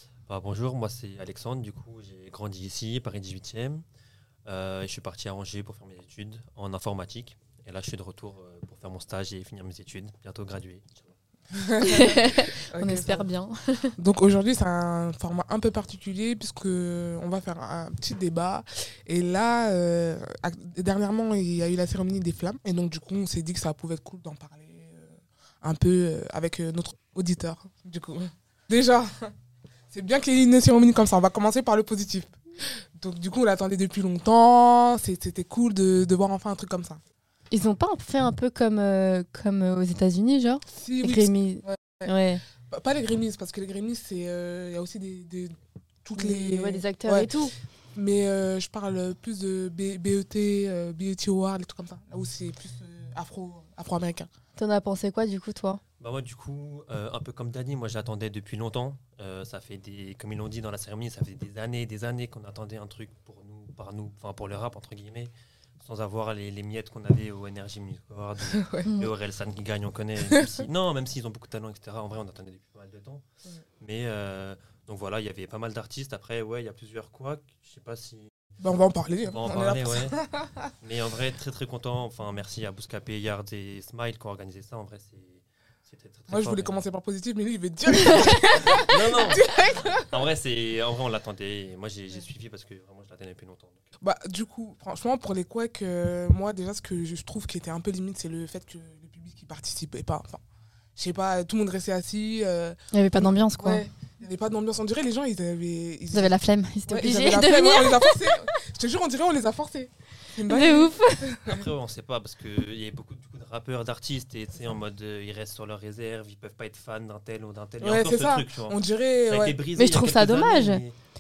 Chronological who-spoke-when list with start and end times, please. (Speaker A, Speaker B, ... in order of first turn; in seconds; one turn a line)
Speaker A: 0.3-3.8
Speaker A: 4.5-11.1
Speaker B: 11.5-13.3
Speaker C: 11.8-13.9
Speaker B: 14.0-29.3
Speaker B: 29.9-32.3
Speaker B: 33.0-37.0
Speaker C: 37.5-42.4
Speaker B: 40.7-42.1
Speaker B: 42.7-45.5
Speaker B: 46.0-47.3
Speaker C: 46.2-47.5
Speaker B: 48.0-54.3
Speaker C: 54.5-55.8
Speaker A: 56.0-73.2
Speaker B: 68.5-68.9
Speaker C: 68.8-69.1
Speaker A: 73.8-78.3
Speaker B: 78.6-80.6
Speaker A: 79.3-80.2
Speaker A: 80.8-86.8
Speaker B: 86.3-90.1
Speaker A: 88.6-93.9
Speaker B: 94.0-100.4
Speaker B: 101.0-106.3
Speaker C: 102.9-103.8
Speaker C: 106.1-108.3
Speaker B: 106.9-111.6
Speaker C: 110.5-111.3
Speaker A: 111.5-121.0
Speaker B: 117.8-119.6
Speaker C: 119.8-120.8